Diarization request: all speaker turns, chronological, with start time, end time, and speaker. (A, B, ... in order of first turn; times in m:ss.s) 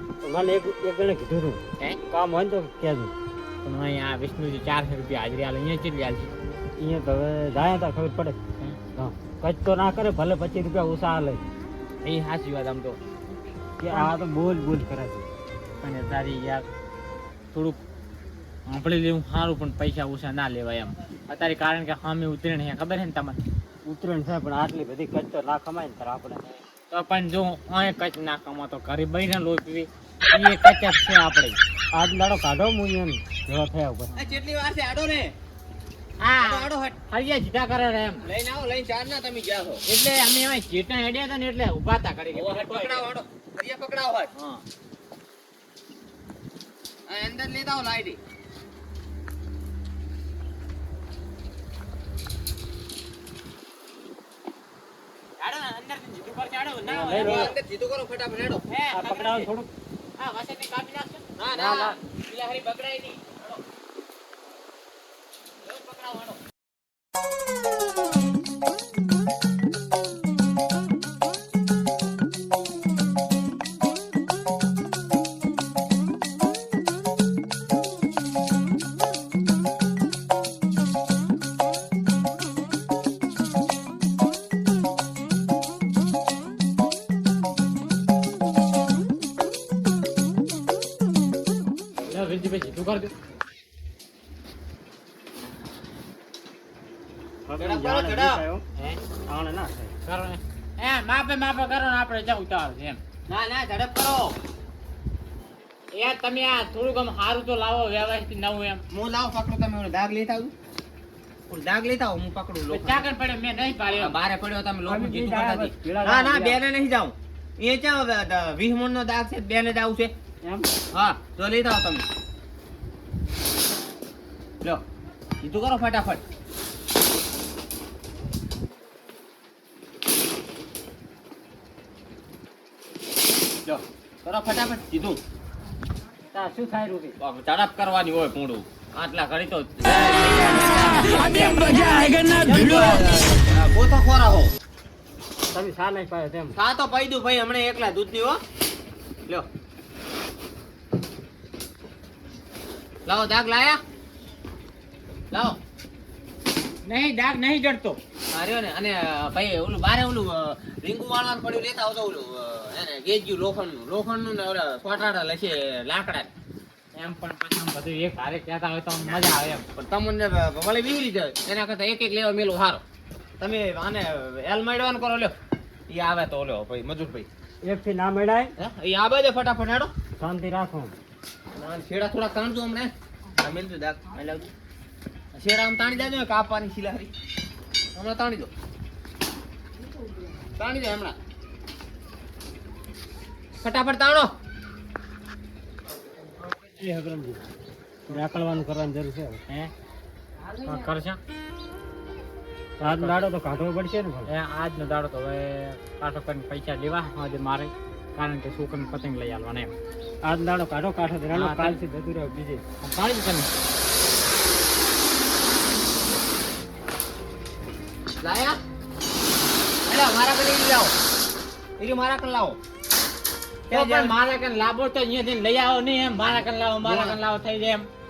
0:00.2-0:03.1 A
0:03.6-0:06.3 B
0:06.8-0:08.4 A
0:08.9-0:11.4 A
0:12.0-0:13.0 B
0:13.8-0:15.3 A
0:15.8-0:16.6 B
0:17.5-0:17.8 B
0:18.7-0:23.4 B
0:23.8-0:26.4 A
0:26.8-0:31.6 B
0:31.9-0:34.1 A
0:34.1-0:35.3 C
0:36.2-0:38.2 B
0:36.4-0:37.0 C
0:38.2-0:39.8 C
0:39.8-0:43.1 B
0:42.3-0:44.3 C
0:44.4-0:44.6 B
0:47.1-0:48.2 C
0:55.4-0:57.5 B
0:56.8-0:57.5 A
0:57.2-0:58.6 C
0:58.7-0:59.5 B
0:58.9-0:59.7 A
1:00.2-1:01.2 B
1:01.4-1:03.6 C
1:01.5-1:02.0 A
1:05.7-1:06.3 B
1:32.1-1:33.1 B
1:37.5-1:38.6 A
1:37.6-1:38.4 C
1:39.2-1:39.9 A
1:40.0-1:43.0 B
1:43.3-1:44.4 C
1:45.9-1:48.8 B
1:48.9-1:50.5 C
1:51.5-1:53.0 C
1:52.7-1:54.1 B
1:53.9-2:00.1 C
1:54.8-1:56.6 A
2:00.9-2:02.0 C
2:05.4-2:06.2 C
2:13.6-2:15.2 C
2:16.3-2:17.2 A
2:17.2-2:21.4 C
2:21.2-2:21.9 B
2:22.2-2:23.2 A
2:22.4-2:24.5 C
2:25.5-2:26.6 A
2:26.5-2:28.4 C
2:33.0-2:33.8 C
2:35.3-2:35.6 C
2:36.8-2:38.0 B
2:38.3-2:46.3 C
2:46.9-2:49.6 B
2:49.8-2:52.8 C
2:53.4-2:55.3 C
2:55.9-2:57.3 C
2:57.6-2:58.5 A
2:58.6-2:59.9 C
3:00.2-3:00.9 A
3:01.6-3:04.5 C
3:05.3-3:07.1 C
3:08.0-3:08.5 C
3:10.6-3:11.2 C
3:13.6-3:14.3 C
3:16.8-3:17.4 A
3:18.1-3:19.4 A
3:20.6-3:21.2 B
3:22.8-3:23.2 B
3:22.8-3:24.3 A
3:24.3-3:29.7 B
3:30.2-3:32.6 A
3:31.3-3:31.8 B
3:32.8-3:33.5 B
3:38.2-3:38.6 C
3:39.9-3:40.9 C
3:41.8-3:42.6 C
3:43.7-3:44.1 C
3:43.7-3:47.9 B
3:46.2-3:47.2 C